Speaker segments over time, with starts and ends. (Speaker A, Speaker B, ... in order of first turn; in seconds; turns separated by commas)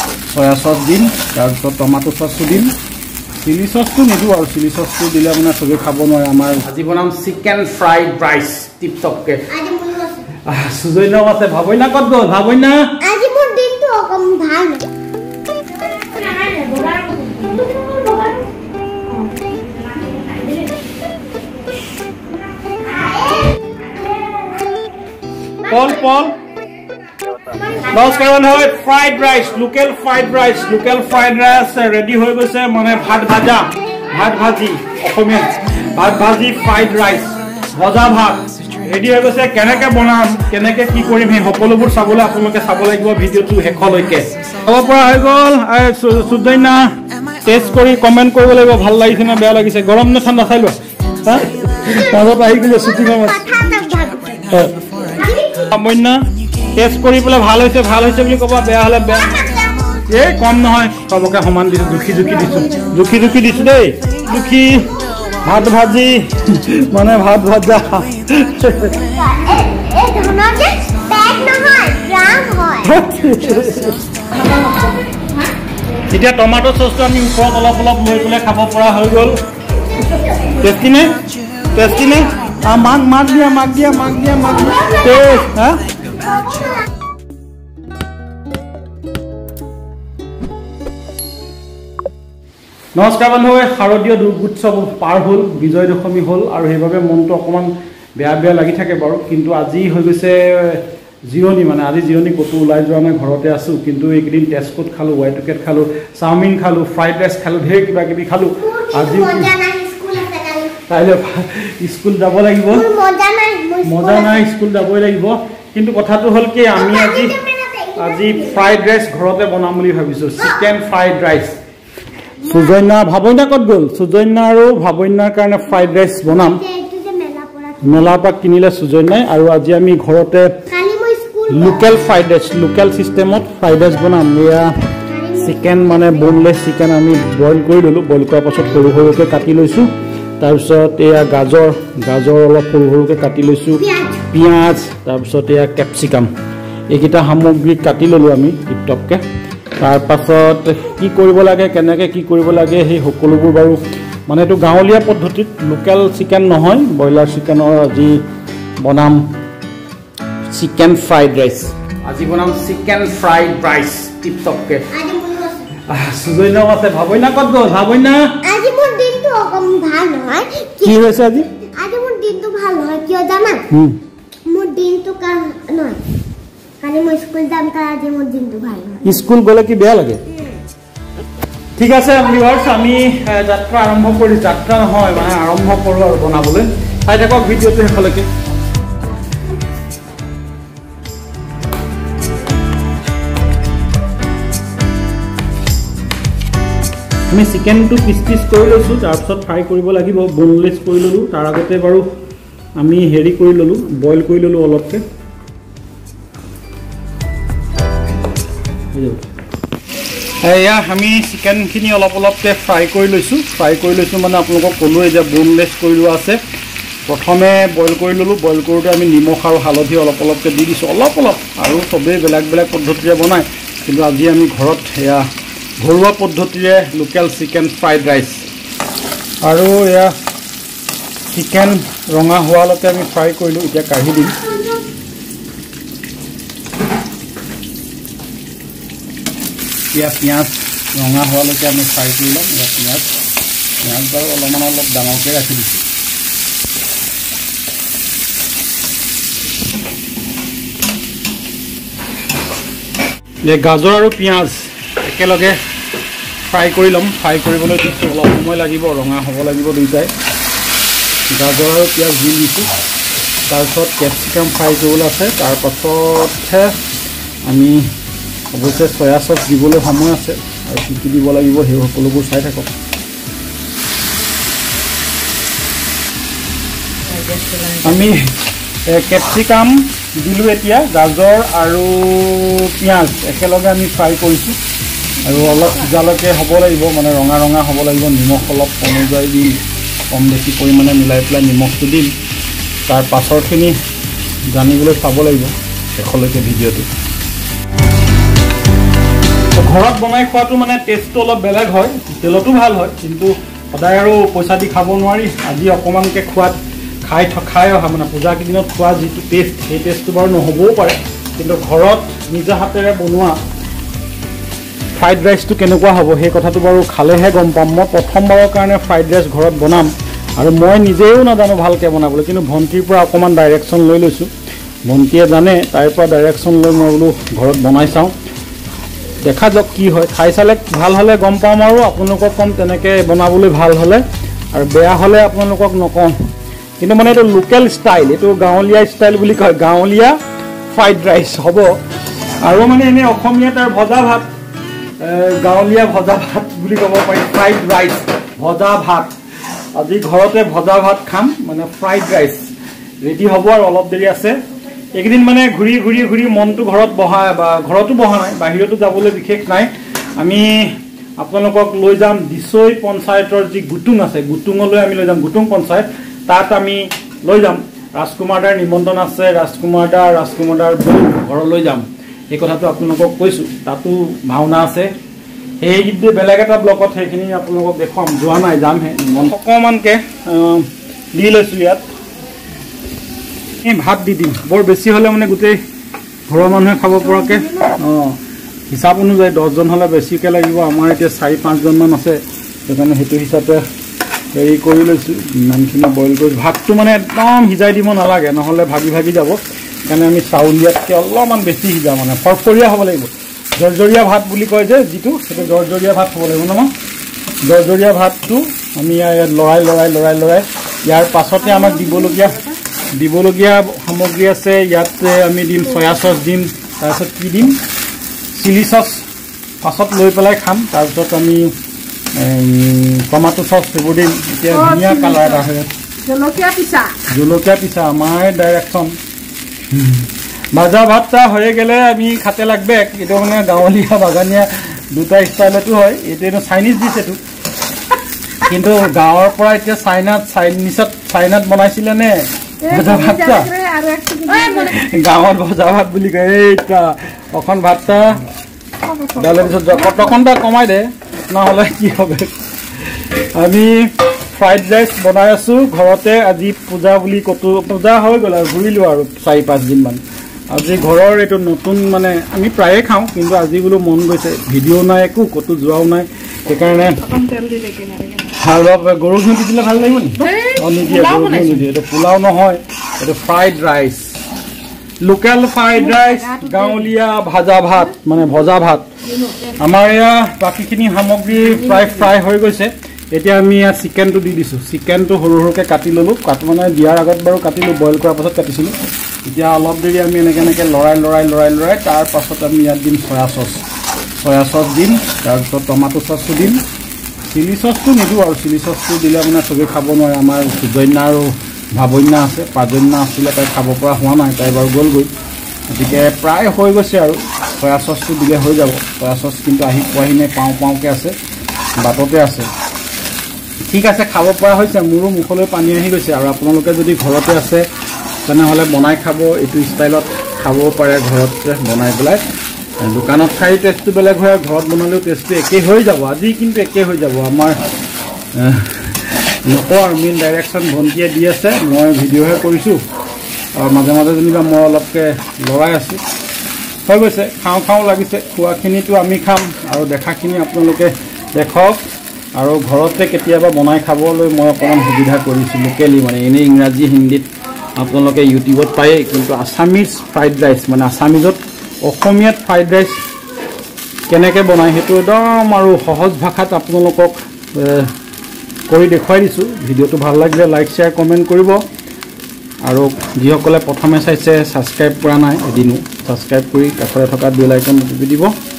Speaker A: 0.3-2.8, Speaker A: 3.4-9.5, Speaker B: 9.5-10.2, Speaker A: 10.5-13.0, Speaker B: 13.0-14.9, Speaker B: 16.1-18.4, Speaker C: 16.3-17.3, Speaker B: 22.8-24.4, Speaker B: 25.6-26.2, Speaker A: 25.7-26.4, Speaker B: 27.6-28.1, Speaker A: 27.9-46.9, Speaker A: 47.5-53.5, Speaker B: 51.9-55.7, Speaker A: 54.5-54.8, Speaker A: 55.7-56.2, Speaker A: 56.8-59.4, Speaker B: 59.1-59.9, Speaker A: 60.1-69.0, Speaker B: 69.1-73.0, Speaker A: 72.8-74.0, Speaker C: 74.5-74.7, Speaker A: 76.1-79.4, Speaker A: 80.6-81.2, Speaker A: 81.7-85.8, Speaker B: 84.7-85.4, Speaker B: 86.0-86.8, Speaker A: 93.0-109.5, Speaker B: 108.6-110.8, Speaker A: 110.9-112.9, Speaker B: 112.7-114.5, Speaker A: 113.9-117.3, Speaker B: 116.8-118.8, Speaker A: 118.0-121.5, Speaker B: 120.4-120.7, Speaker B: 122.4-122.8, Speaker A: 122.5-126.6, Speaker B: 125.9-128.2, Speaker A: 127.8-130.6, Speaker B: 130.7-131.9, Speaker A: 131.5-134.7, Speaker B: 135.1-136.2, Speaker A: 135.4-146.3, Speaker B: 143.8-144.3, Speaker A: 146.9-149.2, Speaker A: 149.8-158.2, Speaker A: 158.8-159.2, Speaker A: 160.5-164.9, Speaker B: 164.9-165.7, Speaker A: 165.9-168.4, Speaker B: 168.4-171.0, Speaker A: 170.8-171.5, Speaker B: 171.8-173.7, Speaker A: 173.7-174.0, Speaker B: 174.5-176.0, Speaker B: 176.8-179.2, Speaker A: 179.0-180.2, Speaker A: 181.8-188.3, Speaker A: 197.3-202.1, Speaker A: 202.8-205.0, Speaker A: 208.9-209.2, Speaker A: 210.4-216.4, Speaker A: 217.1-225.2, Speaker A: 225.8-228.5, Speaker A: 229.4-230.1, Speaker A: 231.3-234.4, Speaker B: 234.4-234.8, Speaker A: 239.9-243.1, Speaker A: 243.8-245.8, Speaker A: 253.4-255.6, Speaker A: 256.5-260.1, Speaker A: 261.3-262.7, Speaker A: 263.5-266.8, Speaker A: 267.4-267.9, Speaker A: 268.5-272.7, Speaker C: 277.1-277.9, Speaker A: 277.8-278.3, Speaker A: 278.9-284.6, Speaker A: 285.2-292.1, Speaker A: 292.9-293.8, Speaker A: 294.5-296.9, Speaker A: 299.6-313.4, Speaker A: 315.0-324.3, Speaker A: 324.9-328.1, Speaker A: 329.2-336.2, Speaker A: 336.8-340.2, Speaker A: 340.7-341.7, Speaker A: 342.4-344.3, Speaker A: 345.0-349.1, Speaker A: 349.8-352.5, Speaker A: 353.0-354.4, Speaker A: 354.9-374.9, Speaker A: 375.6-381.9, Speaker A: 383.6-385.6, Speaker A: 386.3-388.2, Speaker A: 388.7-393.6, Speaker A: 394.3-406.7, Speaker A: 407.4-417.6, Speaker A: 418.3-419.1, Speaker A: 419.6-421.5, Speaker A: 422.1-425.7, Speaker C: 424.7-425.2, Speaker C: 426.0-426.9, Speaker A: 427.1-429.0, Speaker A: 429.7-437.2, Speaker A: 438.4-443.5, Speaker C: 442.7-444.7, Speaker A: 444.3-448.2, Speaker A: 449.1-452.3, Speaker A: 452.9-467.1, Speaker C: 467.1-468.3, Speaker A: 468.3-474.2, Speaker C: 470.3-470.7, Speaker A: 475.0-478.9, Speaker C: 476.0-476.7, Speaker A: 479.6-488.7, Speaker A: 489.2-493.6, Speaker A: 494.2-496.6, Speaker A: 497.3-505.1, Speaker A: 505.7-511.1, Speaker A: 511.8-512.5, Speaker A: 513.7-517.7, Speaker A: 518.2-522.2, Speaker A: 522.8-527.6, Speaker A: 528.4-532.8, Speaker A: 533.6-536.0, Speaker A: 536.9-541.8, Speaker A: 542.4-553.0, Speaker A: 554.1-557.9, Speaker A: 558.7-561.6, Speaker A: 562.6-568.3